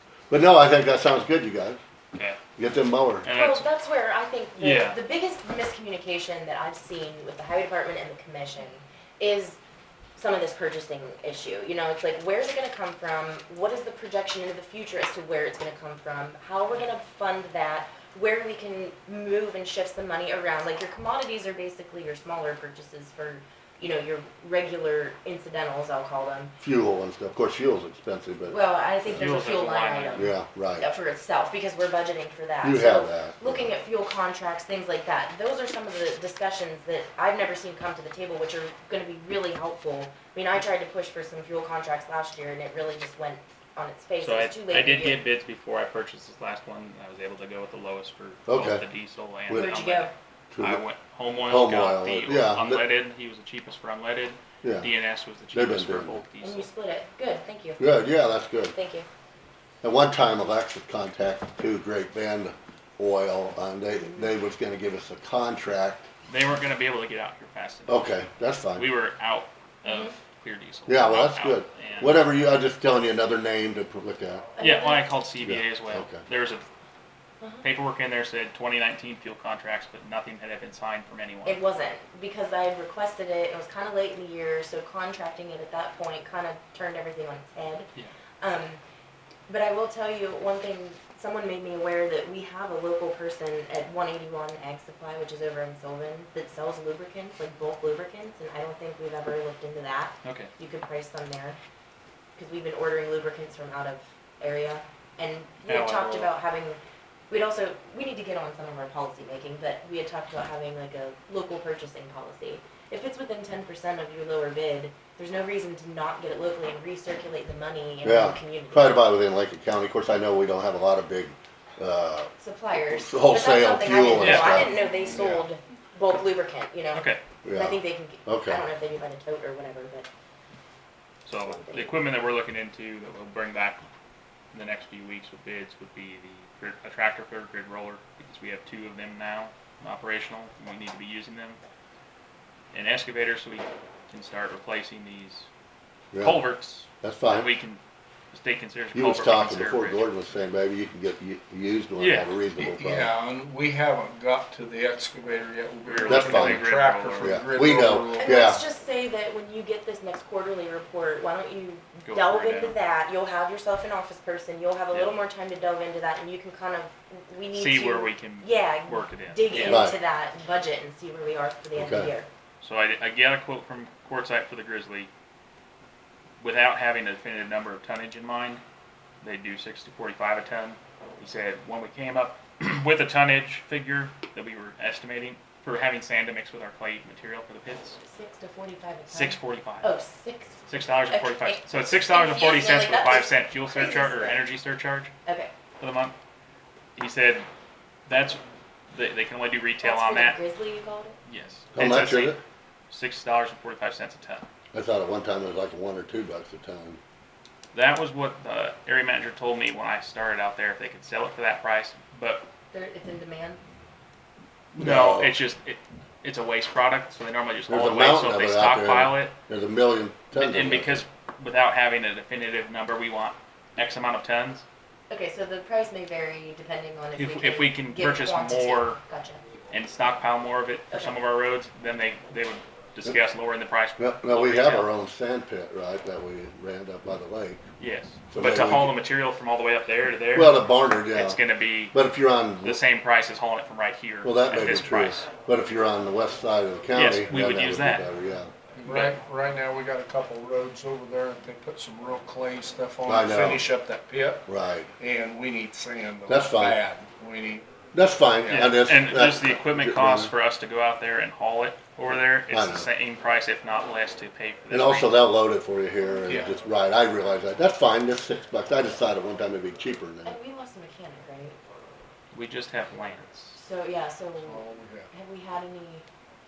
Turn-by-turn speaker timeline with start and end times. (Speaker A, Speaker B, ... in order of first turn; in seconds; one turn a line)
Speaker A: 0.3-1.8
Speaker B: 2.1-2.4
Speaker A: 2.6-3.3
Speaker B: 3.2-3.7
Speaker C: 3.3-9.6
Speaker B: 4.6-5.0
Speaker C: 10.2-26.5
Speaker A: 26.6-29.2
Speaker C: 28.5-45.3
Speaker B: 29.1-30.3
Speaker A: 30.1-30.9
Speaker A: 32.6-33.7
Speaker B: 44.2-56.7
Speaker A: 48.5-48.8
Speaker C: 49.5-50.1
Speaker A: 50.5-50.8
Speaker A: 51.4-52.8
Speaker A: 54.6-54.9
Speaker A: 55.5-56.2
Speaker C: 56.4-57.9
Speaker A: 57.8-58.7
Speaker C: 58.7-59.1
Speaker A: 59.8-66.0
Speaker C: 64.0-64.3
Speaker B: 66.3-68.0
Speaker A: 67.9-68.8
Speaker B: 68.8-72.2
Speaker C: 69.8-70.1
Speaker A: 70.9-74.5
Speaker C: 74.5-75.1
Speaker B: 74.6-76.7
Speaker A: 75.4-76.2
Speaker B: 77.6-81.6
Speaker C: 81.4-88.8
Speaker C: 89.5-101.6
Speaker B: 100.2-100.5
Speaker C: 102.4-106.8
Speaker B: 105.7-106.3
Speaker C: 107.3-119.0
Speaker A: 118.0-122.3
Speaker C: 122.4-130.1
Speaker A: 122.9-124.8
Speaker B: 124.2-124.8
Speaker D: 124.7-125.5
Speaker B: 126.9-127.2
Speaker A: 127.4-128.6
Speaker B: 131.2-133.8
Speaker C: 131.3-131.9
Speaker B: 134.5-141.6
Speaker B: 142.7-145.5
Speaker A: 146.1-146.4
Speaker B: 146.2-147.8
Speaker A: 147.0-147.5
Speaker B: 148.3-150.1
Speaker A: 148.9-153.1
Speaker B: 152.0-152.3
Speaker D: 152.6-158.6
Speaker B: 155.8-157.4
Speaker A: 156.1-158.6
Speaker C: 158.2-172.3
Speaker B: 162.0-162.8
Speaker B: 164.9-165.2
Speaker B: 167.5-170.0
Speaker A: 169.6-169.9
Speaker A: 171.7-172.1
Speaker B: 172.6-175.1
Speaker B: 176.4-178.6
Speaker B: 179.2-188.0
Speaker C: 188.0-194.4
Speaker B: 189.1-189.9
Speaker B: 190.7-195.1
Speaker C: 195.2-195.5
Speaker B: 195.8-196.1
Speaker B: 196.9-197.5
Speaker B: 198.1-198.4
Speaker B: 198.9-200.4
Speaker C: 199.8-201.2
Speaker B: 201.2-202.4
Speaker A: 201.7-202.4
Speaker B: 202.9-204.5
Speaker A: 204.7-207.0
Speaker B: 207.7-212.5
Speaker C: 212.7-213.6
Speaker B: 214.7-219.3
Speaker A: 214.8-215.3
Speaker A: 217.7-221.0
Speaker B: 220.3-224.6
Speaker C: 225.1-229.4
Speaker B: 227.2-229.0
Speaker B: 229.7-234.9
Speaker A: 234.0-237.6
Speaker B: 237.8-242.0
Speaker A: 238.3-239.0
Speaker A: 240.3-241.4
Speaker A: 241.9-242.8
Speaker B: 242.6-245.3
Speaker A: 244.2-248.5
Speaker B: 246.9-248.1
Speaker D: 248.8-254.4
Speaker B: 248.8-249.2
Speaker A: 253.1-253.6
Speaker A: 254.5-254.9
Speaker D: 255.0-257.7
Speaker A: 256.3-256.8
Speaker A: 257.9-260.3
Speaker B: 258.5-265.2
Speaker A: 262.4-262.9
Speaker A: 264.7-270.4
Speaker D: 266.2-266.5
Speaker C: 270.2-271.6
Speaker B: 272.3-273.6
Speaker C: 273.5-276.0
Speaker D: 274.4-275.1